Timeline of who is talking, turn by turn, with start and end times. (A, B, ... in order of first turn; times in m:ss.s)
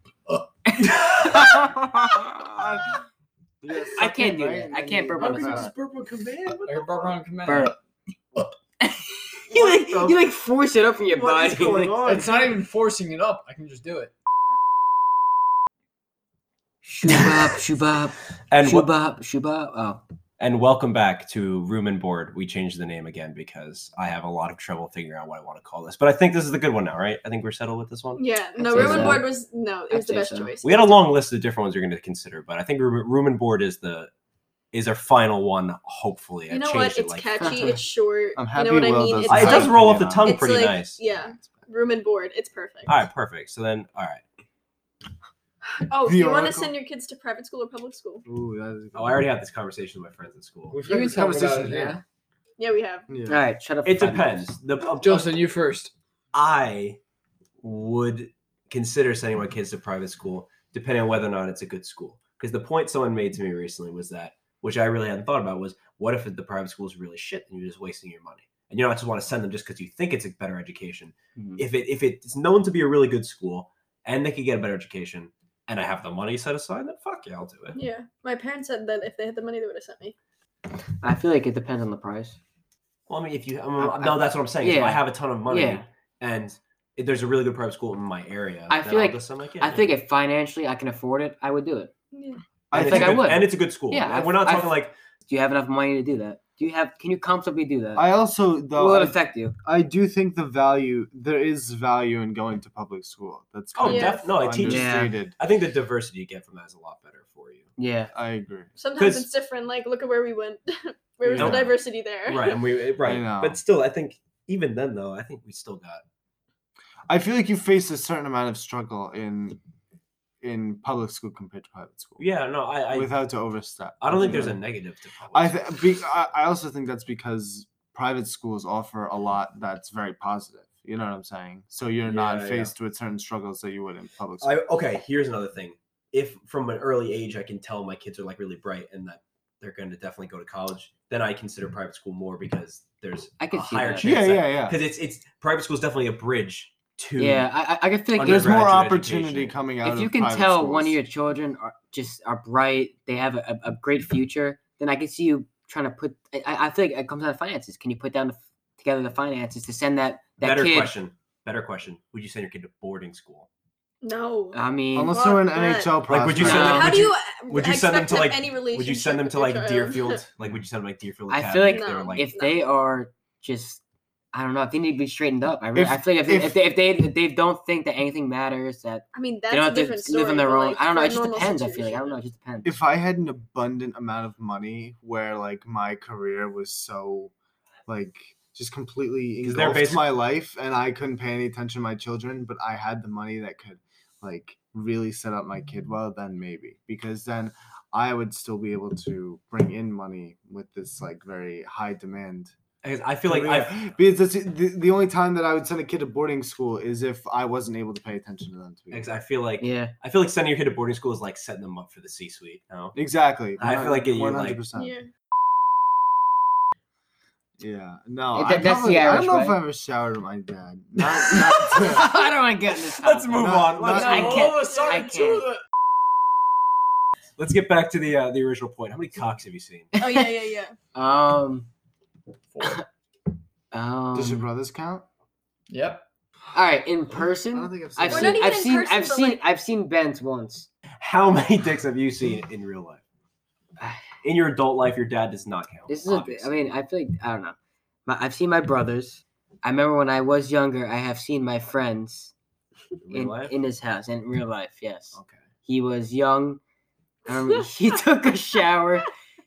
0:00.6-0:01.7 A
0:00.9-0:01.6 B
0:01.8-0:03.0 C
0:03.6-0:05.7 C
0:04.0-0:05.7 A
0:05.2-0:07.2 B
0:06.6-0:07.8 D
0:07.4-0:07.7 A
0:08.8-0:11.9 A
0:09.5-0:10.2 C
0:11.2-0:12.4 B
0:11.3-0:12.5 C
0:11.9-0:14.1 D
0:16.8-0:20.0 A
0:18.5-0:18.9 B
0:20.4-0:28.2 B
0:28.2-0:31.0 E
0:28.6-0:29.3 A
0:28.7-0:29.2 B
0:29.9-0:30.5 A
0:30.6-0:34.1 B
0:34.7-0:37.5 B
0:36.5-0:39.7 E
0:37.4-0:37.8 A
0:38.4-0:40.3 C
0:39.3-0:41.0 B
0:40.2-0:43.0 E
0:42.8-0:44.2 B
0:45.8-0:48.2 E
0:46.0-0:46.7 C
0:48.2-0:49.3 C
0:48.9-0:50.8 B
0:50.7-0:52.0 C
0:50.9-0:52.0 D
0:50.9-0:52.0 A
0:52.6-0:53.0 E
0:53.1-0:53.4 C
0:53.3-0:54.5 A
0:53.8-0:55.4 B
0:54.9-0:55.9 D
0:56.3-0:57.0 B
0:57.6-1:17.8 B
1:11.4-1:11.6 A
1:17.8-1:20.1 E
1:21.0-1:22.4 A
1:23.1-1:29.9 B
1:23.8-1:24.2 C
1:24.6-1:25.8 A
1:28.7-1:31.9 A
1:32.1-1:32.4 E
1:32.7-1:33.3 C
1:32.7-1:35.0 B
1:32.7-1:38.1 A
1:38.0-1:45.4 C
1:38.7-1:39.5 A
1:43.7-1:47.7 B
1:43.8-1:44.3 E
1:44.6-1:45.1 A
1:47.8-1:48.1 A
1:48.1-1:48.7 C
1:48.8-1:52.6 E
1:49.0-1:49.3 B
1:51.2-1:51.7 C
1:51.4-1:51.7 B
1:52.2-1:56.0 B
1:53.0-1:53.6 C
1:57.1-1:59.6 C
2:00.4-2:02.2 C
2:02.2-2:03.1 B
2:02.9-2:04.6 C
2:04.0-2:05.6 B
2:05.3-2:14.5 C
2:12.0-2:12.7 B
2:14.4-2:27.4 B
2:23.4-2:24.0 A
2:24.0-2:24.8 C
2:27.2-2:28.5 A
2:28.1-2:29.5 B
2:28.2-2:31.0 C
2:29.8-2:40.9 A
2:40.4-2:43.5 B
2:44.0-2:45.9 E
2:44.5-2:45.2 A
2:44.9-2:46.9 C
2:46.1-2:52.3 B
2:46.4-2:47.0 A
2:46.5-2:50.2 E
2:51.3-2:53.8 A
2:51.6-2:52.6 E
2:54.3-3:02.7 A
2:55.7-2:56.6 C
2:59.1-3:02.2 E
3:02.6-3:07.3 C
3:07.9-3:22.5 C
3:09.4-3:10.1 B
3:22.8-3:23.9 B
3:23.2-3:29.1 C
3:28.9-3:33.0 B
3:29.6-3:29.9 A
3:32.9-3:35.0 C
3:33.6-3:34.0 A
3:33.6-3:34.6 B
3:34.7-3:35.1 E
3:37.6-3:42.1 C
3:38.3-3:39.6 A
3:41.0-3:45.5 A
3:43.0-3:44.5 B
3:43.4-3:44.4 C
3:43.9-3:45.6 D
3:47.4-3:49.9 B
3:50.0-3:50.7 E
3:50.0-3:50.2 A
3:50.9-3:51.7 A
3:52.5-3:52.8 D
3:53.7-3:54.4 A
3:54.1-3:55.0 C
3:55.7-3:56.0 D
3:56.5-4:00.7 A
3:57.5-3:58.6 C
3:58.1-3:59.4 E
4:01.0-4:03.0 B
4:04.2-4:06.5 B
4:05.9-4:07.5 A
4:08.1-4:12.3 A
4:13.0-4:13.5 B
4:13.1-4:16.6 A
4:17.3-4:19.1 A